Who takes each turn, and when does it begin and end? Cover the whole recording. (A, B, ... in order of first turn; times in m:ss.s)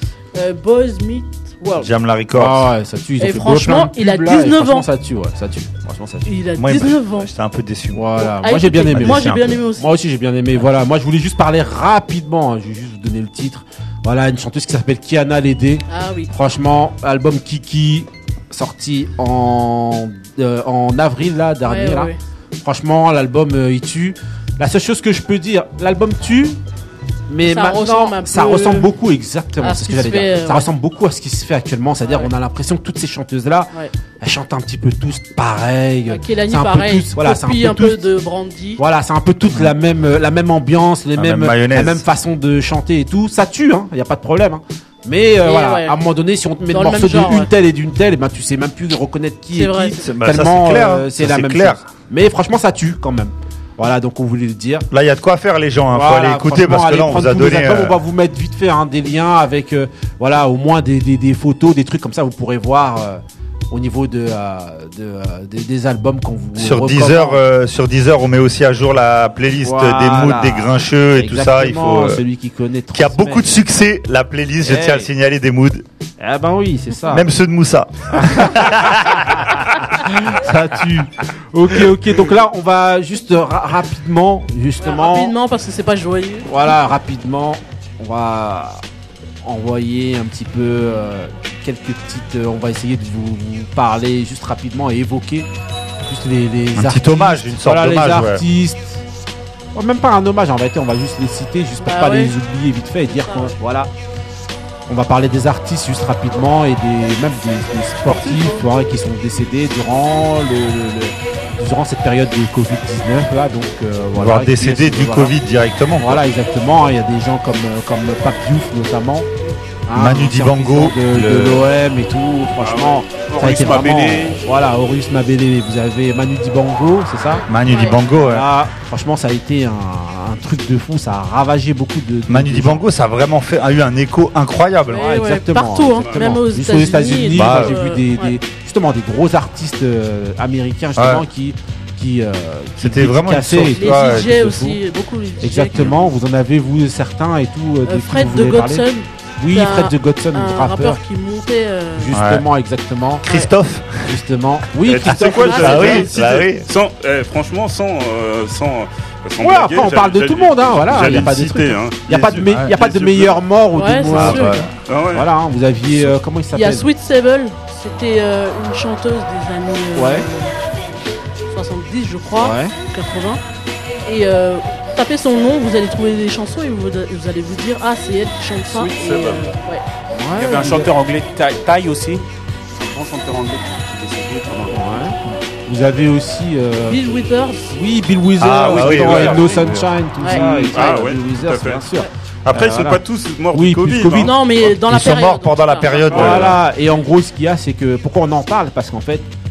0:00.3-0:01.9 A
0:01.8-0:02.7 B
0:02.3-0:06.3 C
0:03.2-0:04.9 A
0:06.2-0:07.3 A
0:06.5-0:08.1 B
0:07.9-0:22.1 C
0:08.2-0:09.9 A
0:08.9-0:09.6 B
0:15.9-0:16.3 A
0:21.6-0:22.2 A
0:22.6-0:26.6 C
0:27.3-0:38.0 C
0:27.4-0:28.9 A
0:29.6-0:30.7 A
0:32.0-0:32.3 A
0:36.1-0:38.8 A
0:38.8-0:54.8 C
0:41.2-0:42.0 B
0:45.4-0:45.9 A
0:46.7-0:47.5 A
0:49.5-0:50.1 A
0:50.0-0:51.8 B
0:54.9-0:58.0 B
0:55.9-1:07.4 C
1:06.6-1:12.2 B
1:09.6-1:13.5 C
1:12.9-1:15.8 B
1:14.6-1:15.1 C
1:16.2-1:17.3 C
1:17.1-1:19.2 B
1:18.1-1:18.7 C
1:19.9-1:25.3 C
1:24.8-1:26.7 A
1:26.4-1:28.8 C
1:29.4-1:35.5 C
1:36.0-1:39.0 C
1:36.7-1:38.4 B
1:39.7-1:43.9 C
1:41.8-1:42.3 A
1:43.1-1:43.5 A
1:44.9-1:55.4 C
1:48.1-1:48.6 A
1:54.1-1:56.2 B
1:56.0-1:59.3 C
1:59.8-2:07.4 C
1:59.9-2:01.7 B
2:02.6-2:03.0 D
2:03.3-2:04.4 E
2:07.4-2:08.2 A
2:07.5-2:08.5 B
2:08.1-2:12.8 C
2:12.3-2:15.2 B
2:14.9-2:18.3 A
2:14.9-2:24.8 C
2:16.0-2:16.3 D
2:17.3-2:17.8 B
2:21.0-2:21.2 B
2:22.8-2:24.6 B
2:23.6-2:26.1 A
2:25.4-2:28.9 C
2:27.8-2:32.1 A
2:29.4-2:31.0 C
2:32.0-2:33.3 C
2:32.1-2:32.4 B
2:33.2-2:34.2 B
2:33.3-2:33.5 A
2:34.0-2:36.2 C
2:34.8-2:43.4 D
2:35.5-2:35.8 A
2:35.6-2:36.6 B
2:39.4-2:46.9 C
2:41.0-2:41.4 A
2:43.7-2:44.7 A
2:44.1-2:44.7 B
2:44.8-2:45.3 D
2:46.5-2:50.5 A
2:49.9-2:50.2 C
2:51.5-2:53.4 A
2:52.4-2:52.7 C
2:54.0-2:59.8 A
2:58.7-2:59.4 E
2:58.9-2:59.2 D
3:00.1-3:00.9 C
3:00.3-3:05.1 E
3:04.7-3:13.0 C
3:06.8-3:07.7 A
3:08.4-3:09.6 B
3:08.6-3:09.7 E
3:10.3-3:11.9 D
3:12.5-3:14.4 D
3:13.5-3:14.3 C
3:14.2-3:16.3 A
3:14.6-3:16.6 B
3:16.1-3:16.6 D
3:16.1-3:19.3 C